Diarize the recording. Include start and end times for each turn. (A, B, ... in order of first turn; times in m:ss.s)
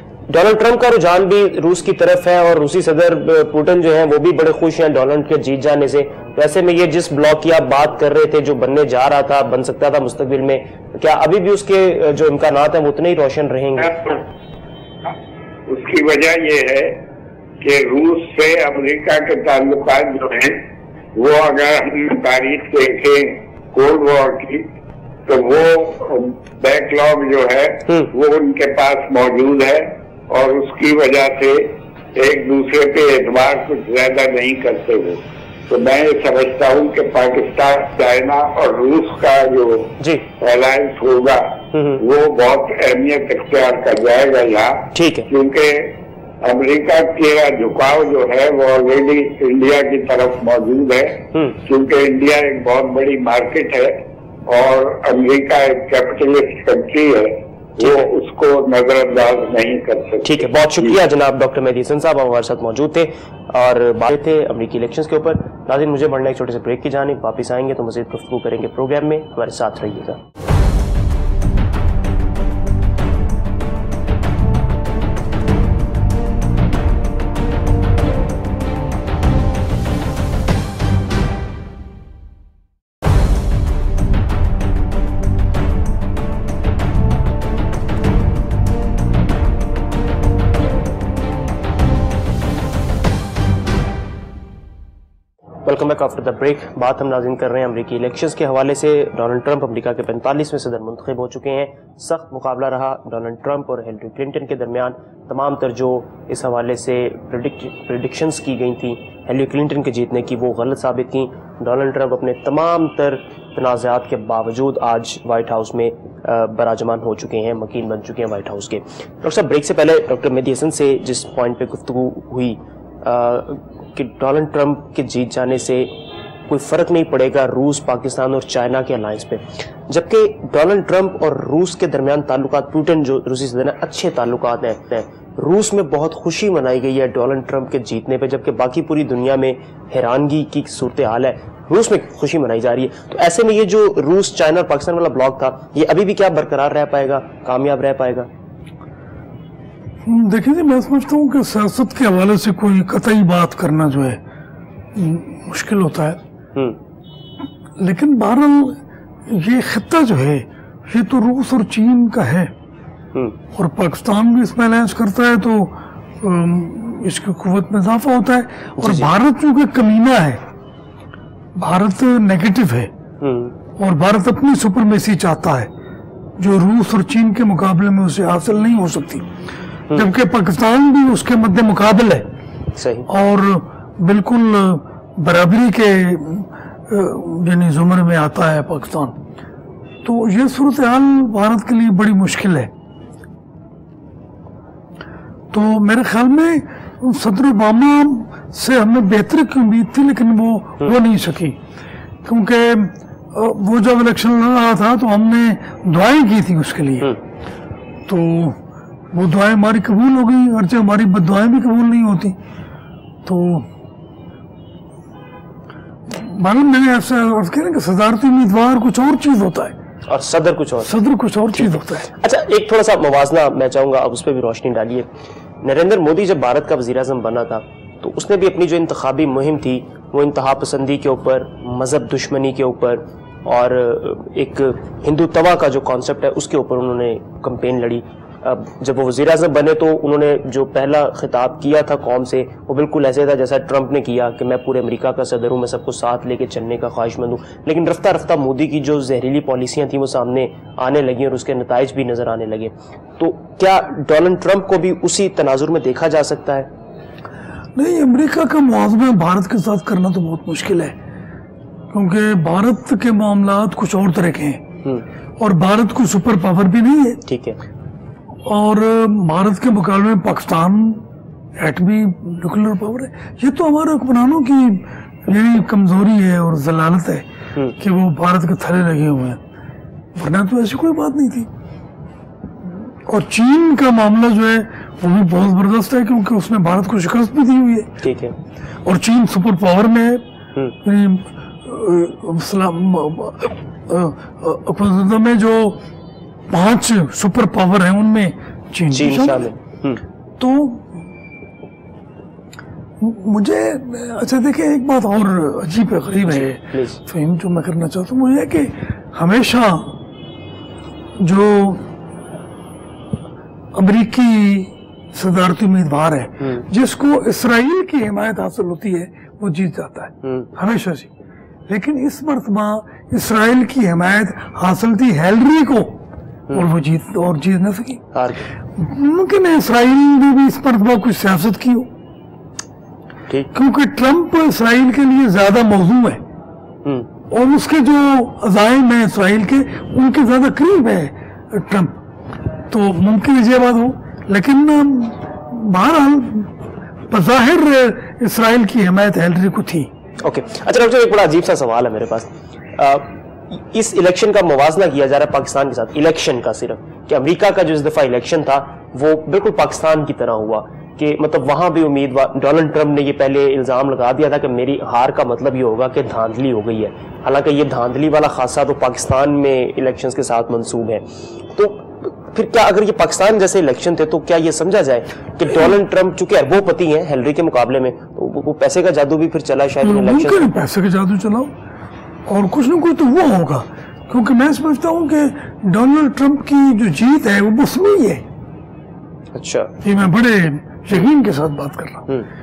0:00.3-0:14.2 A
0:15.7-0:17.0 B
0:17.6-0:20.6 B
0:21.1-0:24.7 B
0:25.3-1:01.0 B
0:40.0-0:40.3 A
0:41.7-0:42.0 A
0:44.9-0:45.3 A
1:00.2-1:10.2 A
1:35.6-2:28.3 A
2:30.0-2:34.2 C
2:34.9-2:36.2 C
2:37.8-2:42.5 C
2:43.5-2:50.4 C
2:48.8-2:49.1 A
2:51.6-2:52.9 C
2:53.2-2:53.5 A
2:53.8-2:55.7 C
2:56.4-2:59.3 C
2:59.9-3:02.2 C
3:02.8-3:03.1 A
3:03.1-3:09.2 C
3:10.0-3:12.7 C
3:15.5-3:21.6 C
3:22.2-3:27.2 C
3:28.0-3:28.6 C
3:29.1-3:32.4 C
3:33.2-3:33.7 C
3:36.1-3:39.7 C
3:40.1-3:40.9 A
3:40.8-3:42.1 C
3:41.5-3:45.1 A
3:45.6-4:16.7 A
4:17.8-4:21.0 C
4:21.9-4:24.6 C
4:25.4-4:27.2 C
4:27.2-4:27.6 A
4:28.4-4:31.0 C
4:31.6-4:37.2 C
4:37.8-4:39.4 C
4:40.1-4:41.5 C
4:42.6-4:48.0 C
4:48.0-4:48.3 A
4:48.8-4:50.2 C
4:50.8-4:55.8 C
4:56.5-4:59.5 C
4:58.9-5:00.0 A
5:00.4-5:01.0 C
5:03.0-5:10.0 C
5:06.3-5:07.0 A
5:11.2-5:11.9 C
5:13.7-5:21.1 C
5:20.2-5:20.5 A
5:21.7-5:26.0 C
5:26.5-5:28.0 C
5:28.1-5:28.5 A
5:28.7-5:31.9 C
5:33.5-5:36.2 C
5:37.3-5:42.0 C
5:42.7-5:46.5 C
5:47.1-5:49.9 C
5:50.2-6:20.6 A
6:19.8-6:21.5 C
6:22.3-6:28.2 C
6:29.3-6:29.7 A
6:29.8-6:32.1 C